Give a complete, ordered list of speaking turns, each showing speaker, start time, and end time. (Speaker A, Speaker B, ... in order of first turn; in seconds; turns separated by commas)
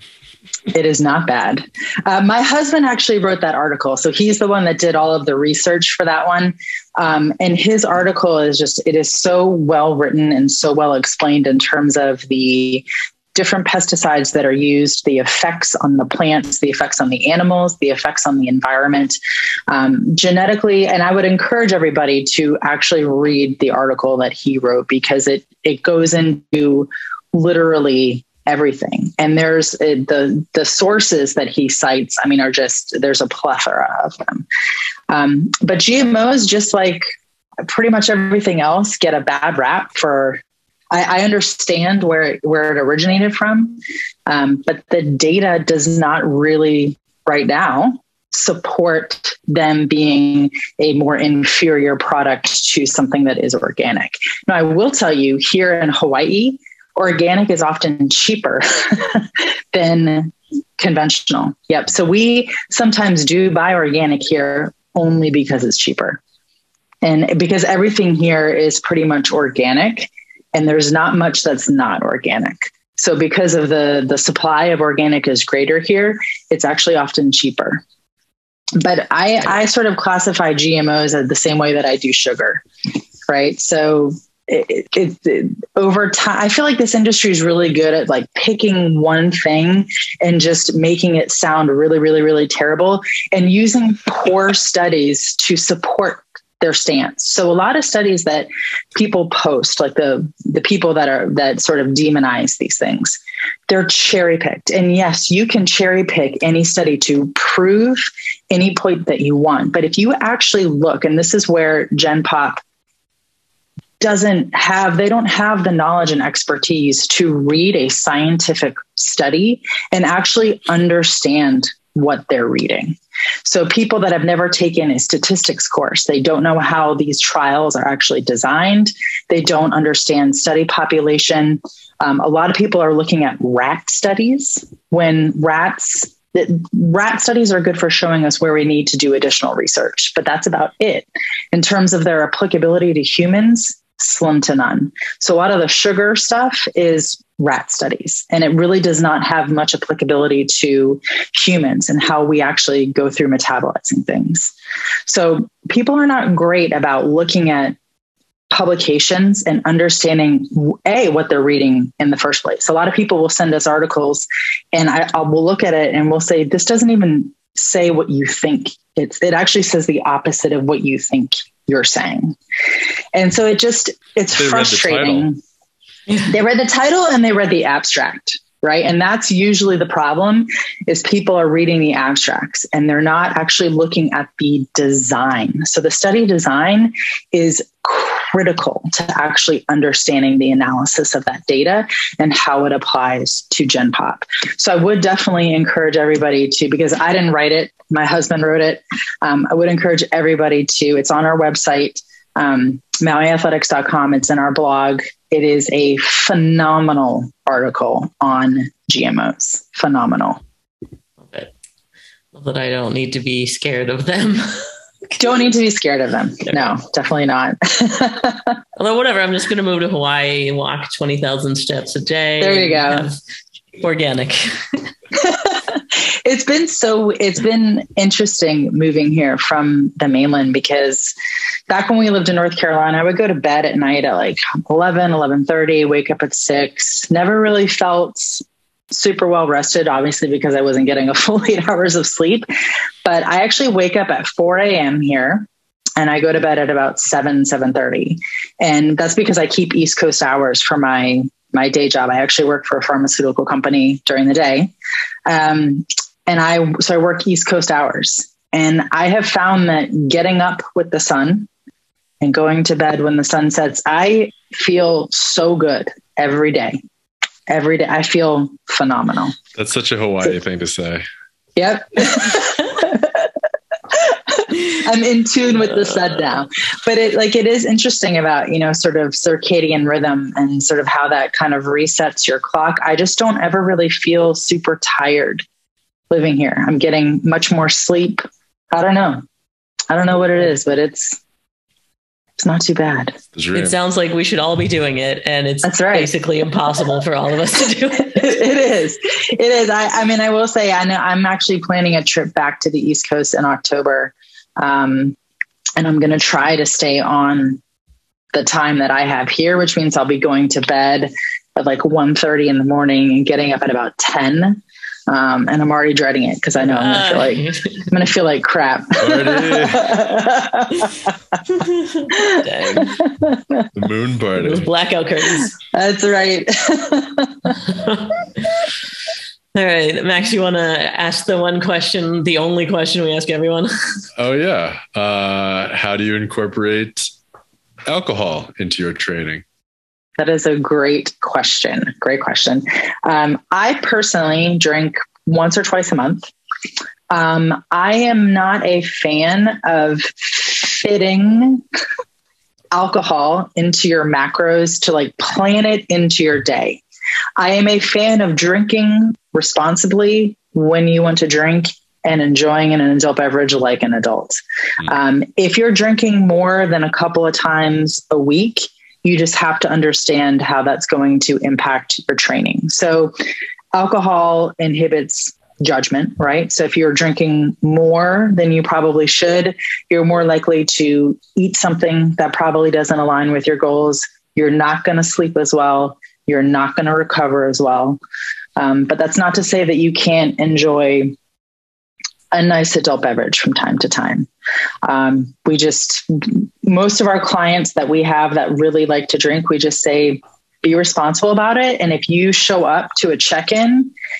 Speaker A: 0.7-19.1, Speaker A: 19.7-34.5, Speaker A: 35.1-37.0, Speaker A: 37.6-66.2, Speaker A: 67.0-77.8, Speaker A: 78.8-82.6, Speaker A: 83.3-112.6, Speaker A: 114.0-154.5, Speaker A: 155.1-157.8, Speaker A: 158.5-172.4, Speaker A: 173.1-175.4, Speaker B: 174.3-175.3, Speaker A: 176.2-210.4, Speaker C: 211.2-211.5, Speaker C: 212.3-215.1, Speaker A: 215.2-218.6, Speaker C: 218.8-223.2, Speaker A: 222.4-223.1, Speaker C: 223.8-224.9, Speaker A: 225.1-231.1, Speaker A: 231.7-242.5, Speaker A: 243.0-245.5, Speaker A: 246.0-254.7, Speaker A: 255.2-261.5, Speaker A: 262.2-266.8, Speaker A: 267.5-269.4, Speaker B: 269.5-271.0, Speaker A: 271.6-273.3, Speaker A: 273.9-285.4, Speaker A: 286.1-289.2, Speaker A: 289.9-291.2, Speaker A: 292.4-293.2, Speaker B: 293.3-293.7, Speaker C: 293.5-298.3, Speaker A: 295.6-296.1, Speaker A: 298.1-305.2, Speaker A: 305.8-307.6, Speaker A: 308.3-321.1, Speaker C: 316.6-317.8, Speaker B: 319.0-319.9, Speaker C: 321.5-323.0, Speaker A: 322.1-323.7, Speaker B: 323.8-324.7, Speaker C: 324.4-325.5, Speaker A: 325.7-327.6, Speaker C: 327.6-328.7, Speaker C: 329.5-333.7, Speaker B: 334.2-337.1, Speaker B: 337.9-339.4, Speaker A: 340.2-346.3, Speaker A: 347.1-351.6, Speaker A: 352.7-356.8, Speaker A: 357.4-373.1, Speaker A: 373.7-388.0, Speaker A: 388.6-391.1, Speaker A: 392.3-394.3, Speaker A: 394.8-403.9